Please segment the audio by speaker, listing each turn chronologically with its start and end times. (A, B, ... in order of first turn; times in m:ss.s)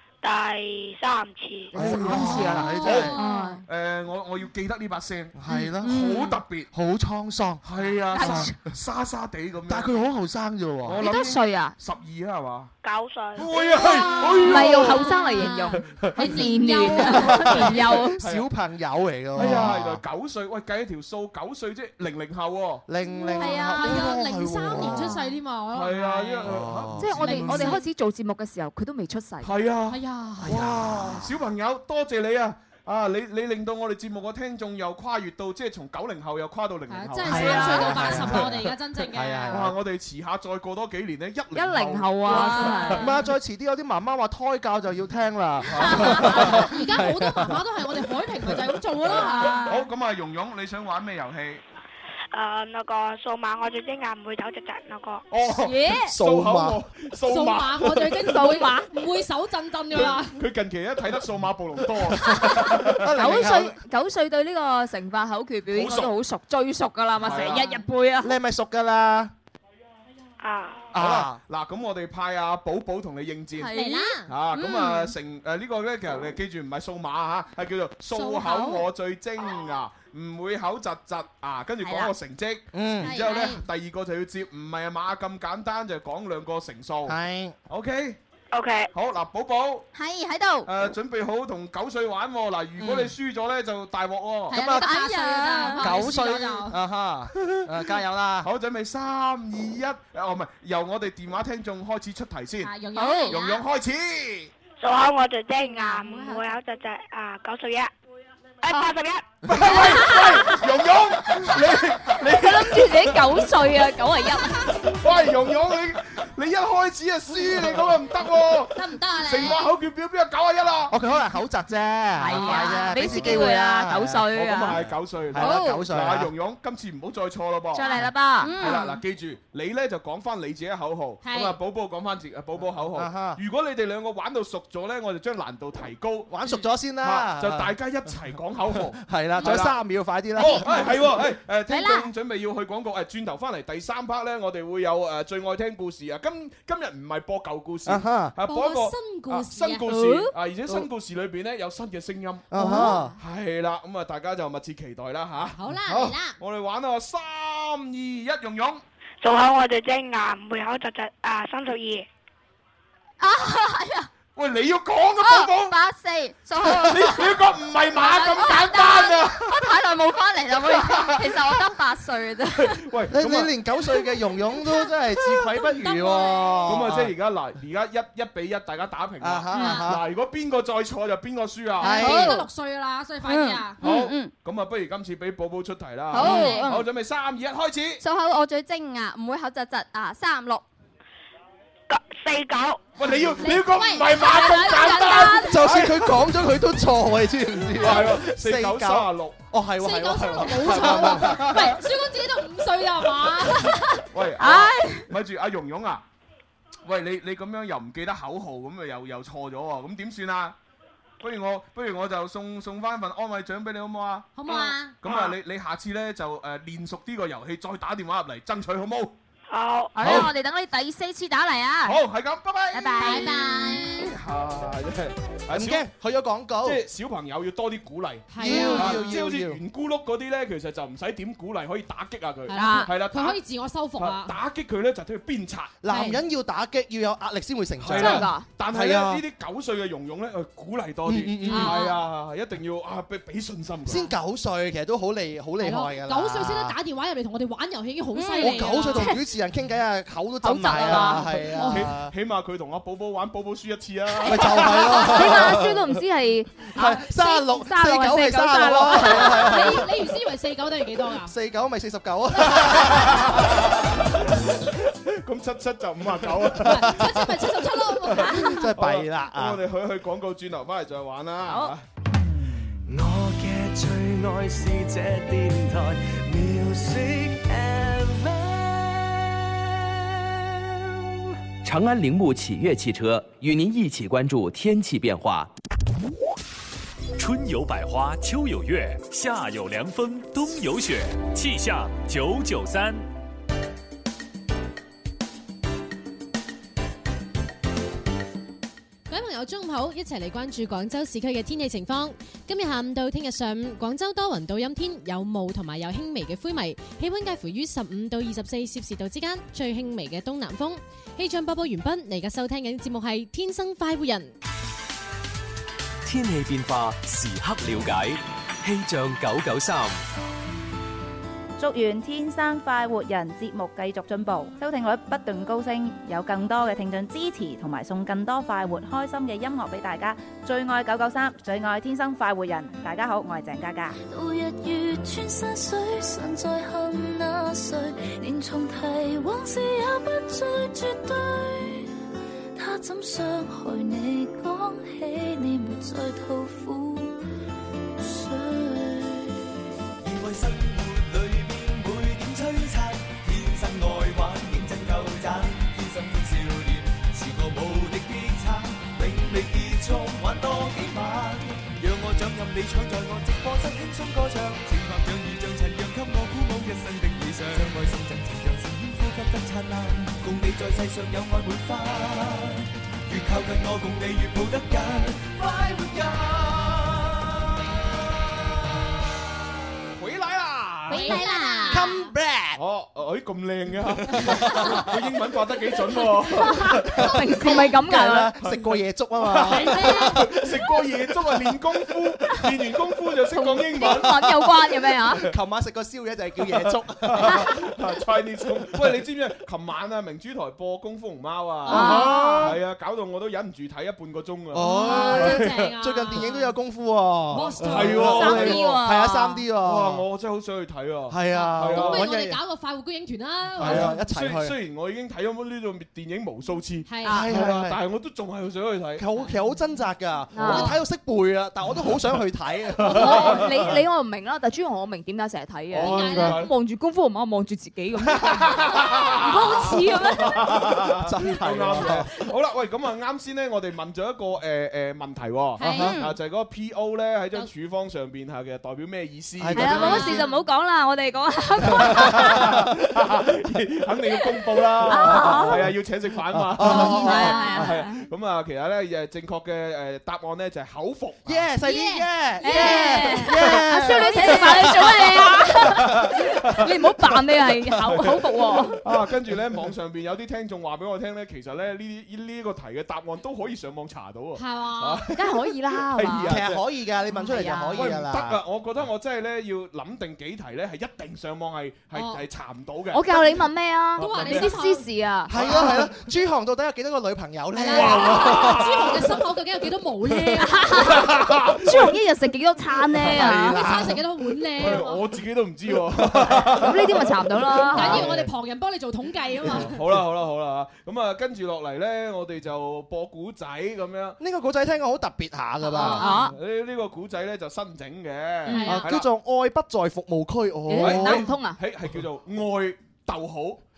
0:00.2-0:01.7 A
0:01.7-0:03.2 B
0:01.7-0:03.6 C
0:01.7-0:06.7 D
0:02.9-0:03.6 E
0:05.3-0:06.0 B
0:05.6-0:06.4 C
0:06.7-0:08.5 B
0:07.6-0:10.0 D
0:08.1-0:08.6 C
0:09.7-0:11.0 B
0:10.8-0:12.7 D
0:11.0-0:11.7 C
0:12.8-0:13.5 A
0:13.4-0:18.4 D
0:13.8-0:17.8 E
0:14.4-0:18.2 C
0:17.1-0:20.0 B
0:19.3-0:22.8 D
0:22.9-0:25.1 B
0:23.1-0:26.6 E
0:25.7-0:27.7 D
0:26.4-0:27.8 B
0:27.0-0:29.5 C
0:27.1-0:27.8 E
0:29.4-0:38.7 D
0:29.9-0:30.5 E
0:30.4-0:31.4 B
0:36.9-0:39.6 E
0:37.2-0:39.7 B
0:37.3-0:37.9 C
0:39.5-0:43.1 D
0:41.5-0:43.2 C
0:42.3-0:43.0 E
0:42.9-0:47.5 B
0:45.7-0:46.7 D
0:45.7-0:49.7 E
0:49.0-0:51.6 D
0:49.1-0:49.8 C
0:52.3-0:55.2 A
0:55.3-0:58.3 D
0:55.6-0:56.1 C
0:56.1-0:56.8 B
0:57.2-1:00.4 E
0:58.2-0:58.8 C
0:59.9-1:03.4 D
1:02.2-1:03.8 B
1:03.1-1:08.3 C
1:05.7-1:06.1 D
1:07.2-1:07.7 D
1:07.2-1:07.8 E
1:08.2-1:09.3 B
1:10.4-1:10.9 A
1:10.9-1:11.4 B
1:10.9-1:13.7 D
1:13.6-1:15.1 C
1:13.7-1:14.3 E
1:14.3-1:27.2 D
1:18.1-1:18.9 E
1:21.8-1:22.1 C
1:22.7-1:23.2 B
1:23.0-1:23.6 E
1:27.0-1:27.5 B
1:27.7-1:28.2 D
1:28.5-1:28.9 A
1:28.9-1:29.9 D
1:29.9-1:30.7 C
1:30.6-1:34.8 D
1:32.8-1:33.1 B
1:34.5-1:36.8 E
1:34.5-1:34.8 B
1:34.5-1:35.9 C
1:35.8-1:38.5 B
1:38.4-1:42.8 D
1:42.6-1:43.6 E
1:42.9-1:43.4 C
1:43.3-1:44.5 D
1:44.8-1:47.9 A
1:45.6-1:46.5 E
1:48.6-1:49.4 A
1:49.4-1:53.5 D
1:49.7-1:50.4 C
1:52.2-1:54.7 C
1:54.8-2:01.0 D
1:58.7-1:59.6 E
2:00.9-2:06.3 B
2:02.2-2:04.8 C
2:02.5-2:03.4 D
2:04.3-2:16.3 D
2:05.4-2:05.8 C
2:07.7-2:08.9 C
2:07.8-2:08.9 E
2:11.2-2:11.6 E
2:12.9-2:13.4 B
2:16.3-2:17.7 B
2:17.0-2:19.8 D
2:19.0-2:21.0 B
2:20.4-2:38.8 D
2:21.7-2:22.1 C
2:27.8-2:28.3 B
2:28.4-2:30.0 E
2:29.9-2:30.3 C
2:32.5-2:33.1 B
2:32.6-2:33.1 E
2:32.7-2:33.0 C
2:35.6-2:36.4 E
2:39.2-2:42.1 A
2:43.2-2:44.1 C
2:44.4-2:45.8 D
2:45.2-2:47.4 C
2:46.6-2:49.8 D
2:47.9-2:52.8 C
2:50.5-2:51.6 D
2:52.6-2:53.5 D
2:53.1-2:57.1 B
2:55.6-2:56.6 E
2:56.6-3:02.3 D
2:59.2-3:00.0 B
2:59.5-2:59.8 C
3:01.8-3:02.4 B
3:01.8-3:03.8 E
3:02.0-3:02.4 C
3:03.2-3:04.3 C
3:03.8-3:08.0 D
3:06.1-3:06.8 C
3:06.2-3:06.7 E
3:08.0-3:10.6 C
3:11.9-3:12.9 A
3:13.0-3:16.3 D
3:13.2-3:15.3 E
3:14.2-3:15.6 C
3:15.4-3:21.7 B
3:17.8-3:19.4 D
3:19.8-3:24.0 E
3:20.4-3:21.8 D
3:24.1-3:26.0 D
3:24.4-3:25.1 C
3:26.8-3:30.5 D
3:31.2-3:39.1 D
3:34.3-3:35.0 E
3:39.5-3:39.9 A
3:39.9-3:42.0 C
3:40.0-3:40.3 D
3:41.8-3:43.2 D
3:42.7-3:43.8 C
3:43.0-3:44.1 E
3:43.8-3:45.9 D
3:45.5-3:46.8 B
3:46.6-3:53.4 D
3:48.3-3:49.1 E
3:48.4-3:49.6 B
3:52.5-3:54.3 E
3:52.5-3:52.9 C
3:54.0-3:55.8 D
3:55.8-3:59.2 B
3:55.9-3:56.2 E
3:57.8-4:04.1 D
3:57.9-3:58.5 C
4:01.0-4:01.8 B
4:01.5-4:01.9 E
4:03.9-4:06.8 B
4:05.6-4:09.2 E
4:08.1-4:09.1 C
4:08.4-4:12.1 B
4:10.4-4:11.3 C
4:10.7-4:11.9 E
4:11.6-4:15.6 D
4:14.2-4:15.8 B
4:14.8-4:19.8 C
4:16.7-4:19.8 B
4:18.9-4:21.3 E
4:21.2-4:23.7 B
4:22.5-4:27.2 D
4:26.6-4:28.7 E
4:26.6-4:27.4 B
4:28.0-4:31.8 D
4:28.2-4:29.6 B
4:31.5-4:31.7 C
4:32.9-4:40.0 F
4:41.6-4:45.5 G
4:47.2-4:53.0 H
4:59.1-5:14.3 E
5:16.0-5:20.0 F
5:21.6-5:34.0 I
5:34.0-5:41.9 J
5:42.6-5:47.2 J
5:48.0-5:49.4 J
5:50.0-6:17.3 F
6:20.0-6:21.3 D
6:20.9-6:22.1 E
6:20.9-6:21.9 C
6:21.7-6:22.6 B
6:22.5-6:27.5 D
6:24.1-6:24.8 B
6:27.0-6:28.3 C
6:27.1-6:30.6 B
6:28.4-6:34.4 D
6:29.5-6:30.3 E
6:33.3-6:35.2 C
6:35.1-6:37.5 B
6:36.5-6:46.2 D
6:41.7-6:42.2 E
6:41.7-6:42.6 C
6:41.7-6:42.6 B
6:44.5-6:50.0 B
6:44.6-6:46.6 E
6:47.3-6:48.4 E
6:47.6-6:48.8 D
6:48.0-6:49.4 C
6:49.6-6:52.1 D
6:51.1-6:52.4 B
6:51.3-6:53.9 E
6:53.6-6:54.6 B
6:53.6-6:59.0 D
6:56.9-6:57.2 E
6:57.0-6:57.8 B
6:59.0-7:03.4 B
7:00.3-7:00.7 C
7:00.4-7:00.8 E
7:02.8-7:03.8 D
7:02.9-7:10.4 C
7:05.7-7:06.5 D
7:05.8-7:06.4 E
7:06.0-7:06.3 B
7:08.0-7:20.2 D
7:09.3-7:10.0 E
7:11.0-7:12.1 B
7:15.6-7:16.0 E
7:15.6-7:16.0 B
7:19.4-7:20.2 B
7:19.5-7:22.5 C
7:19.7-7:20.4 E
7:21.7-7:22.7 B
7:21.8-7:31.5 D
7:24.8-7:25.6 C
7:24.9-7:25.7 B
7:26.3-7:27.8 B
7:26.6-7:28.0 C
7:31.2-7:35.9 B
7:31.6-7:34.6 E
7:32.4-7:38.8 C
7:35.6-7:36.7 D
7:37.7-7:45.2 D
7:44.4-7:45.1 E
7:45.1-7:46.4 C
7:45.8-7:46.6 D
7:46.2-7:48.4 B
7:47.1-7:47.9 C
7:47.7-7:53.4 D
7:51.9-7:52.2 E
7:52.9-7:55.3 C
7:53.9-7:54.9 E
7:54.0-7:54.6 D
7:55.3-7:58.8 B
7:55.3-7:55.9 D
7:57.6-8:01.1 E
7:57.6-7:59.2 D
8:00.5-8:00.9 C
8:00.8-8:01.9 D
8:01.6-8:03.7 C
8:03.0-8:03.5 D
8:03.1-8:04.0 B
8:03.3-8:05.1 E
8:04.6-8:08.3 D
8:06.6-8:08.1 C
8:07.6-8:09.8 E
8:09.4-8:14.2 D
8:14.2-8:16.1 B
8:15.7-8:16.2 E
8:15.7-8:19.1 D
8:15.8-8:16.3 C
8:18.5-8:18.9 E
8:18.6-8:21.3 B
8:20.7-8:21.6 C
8:20.7-8:23.6 D